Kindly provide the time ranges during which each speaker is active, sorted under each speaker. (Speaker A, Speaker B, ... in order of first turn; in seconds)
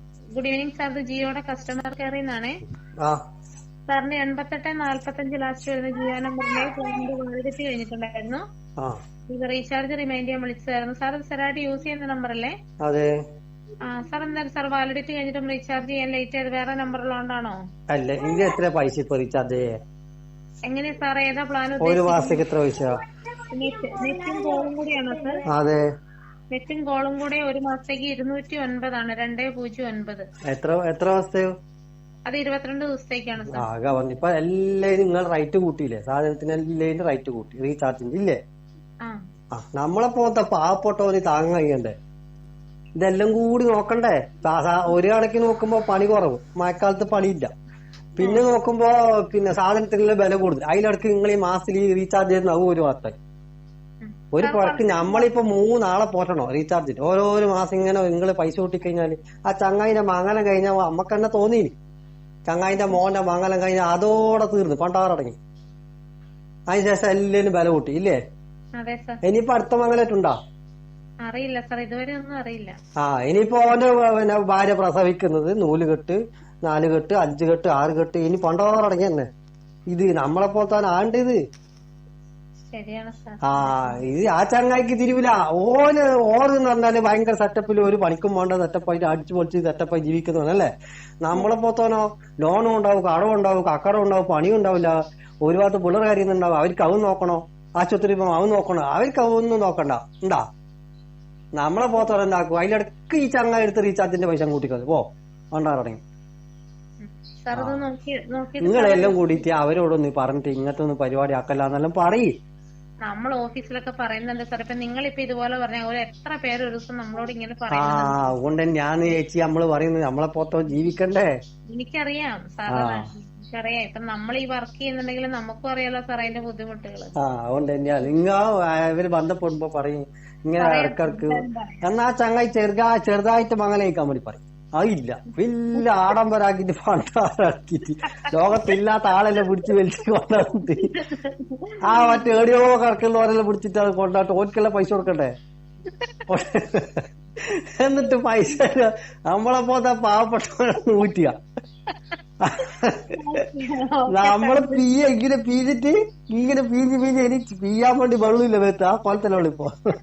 Speaker A: 0.3-2.6, 3.9-8.4, 9.3-12.5, 13.9-17.6, 20.7-22.4, 23.5-25.4, 26.5-30.2, 32.3-33.6, 54.0-55.3, 62.7-63.0, 68.8-69.2, 71.2-72.8, 82.7-84.0, 107.0-109.3, 113.0-118.3, 121.7-127.1, 130.6-131.8, 138.2-138.7, 140.9-142.3, 153.1-154.8
Speaker B: 12.8-13.1, 17.9-19.7, 21.8-23.0, 25.5-25.8, 30.5-31.5, 33.5-38.4, 39.5-41.9, 43.0-47.5, 48.2-53.1, 54.3-61.7, 62.5-65.4, 66.7-68.2, 69.2-70.3, 73.0-79.3, 79.9-81.4, 83.5-90.7, 91.2-100.4, 101.6-105.0, 105.5-106.0, 107.5-107.8, 108.6-112.3, 117.7-121.3, 122.7-123.0, 127.2-140.9, 141.8-145.3, 146.3-151.3, 152.4-153.2, 154.1-159.7